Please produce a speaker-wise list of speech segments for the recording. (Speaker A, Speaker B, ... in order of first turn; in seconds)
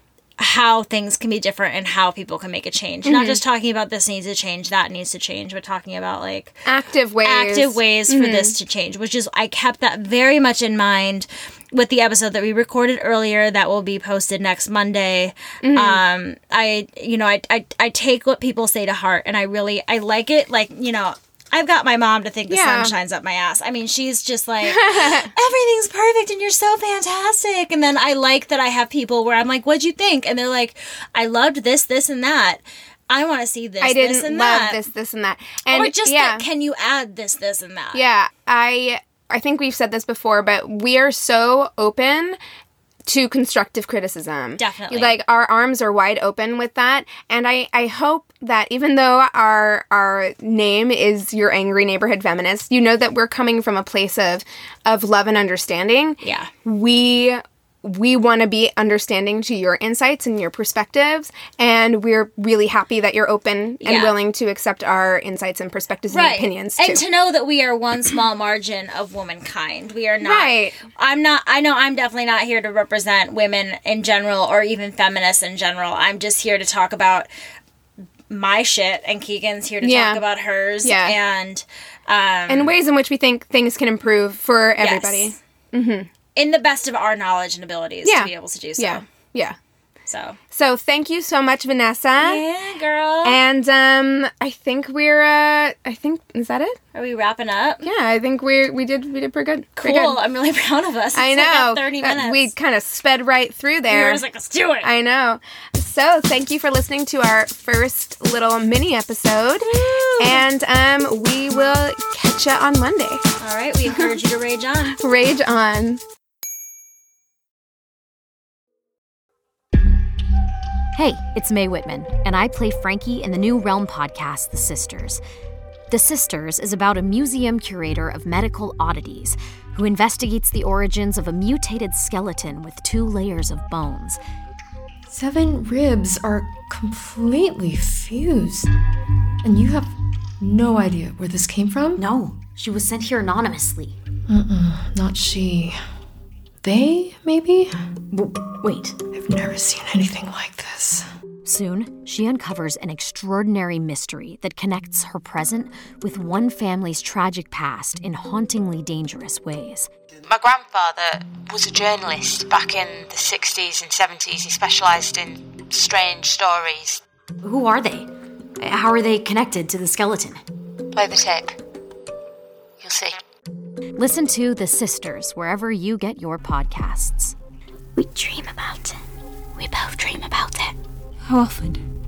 Speaker A: 0.4-6.6, 7.2-34.8, 35.7-38.0, 44.6-45.2, 56.2-56.5, 63.8-64.2, 66.1-77.3, 78.3-82.7, 84.8-85.3, 86.3-89.0, 90.1-90.4, 92.2-93.4, 96.9-97.9, 99.8-102.5, 103.9-104.9, 109.7-110.4, 113.4-115.0
Speaker B: 3.0-3.4, 6.7-8.5, 15.6-16.0, 22.5-22.9, 24.6-25.3, 33.8-36.4, 37.9-42.4, 43.0-67.0, 70.2-70.8, 79.8-80.2, 80.8-81.2, 82.5-86.1, 88.0-89.6, 90.5-92.4, 93.2-96.8, 97.8-100.2, 101.1-104.2, 104.8-113.2, 115.0-116.0
Speaker C: 120.9-125.2, 125.9-134.2, 142.0-144.0, 148.1-149.0, 151.4-159.9, 167.4-170.4, 174.0-177.3, 177.9-179.0, 179.6-180.8
Speaker D: 135.1-138.7, 139.4-142.0, 144.3-145.8, 146.6-147.8, 149.1-151.1, 181.3-181.8
Speaker E: 160.2-167.0, 170.9-171.6, 172.8-173.2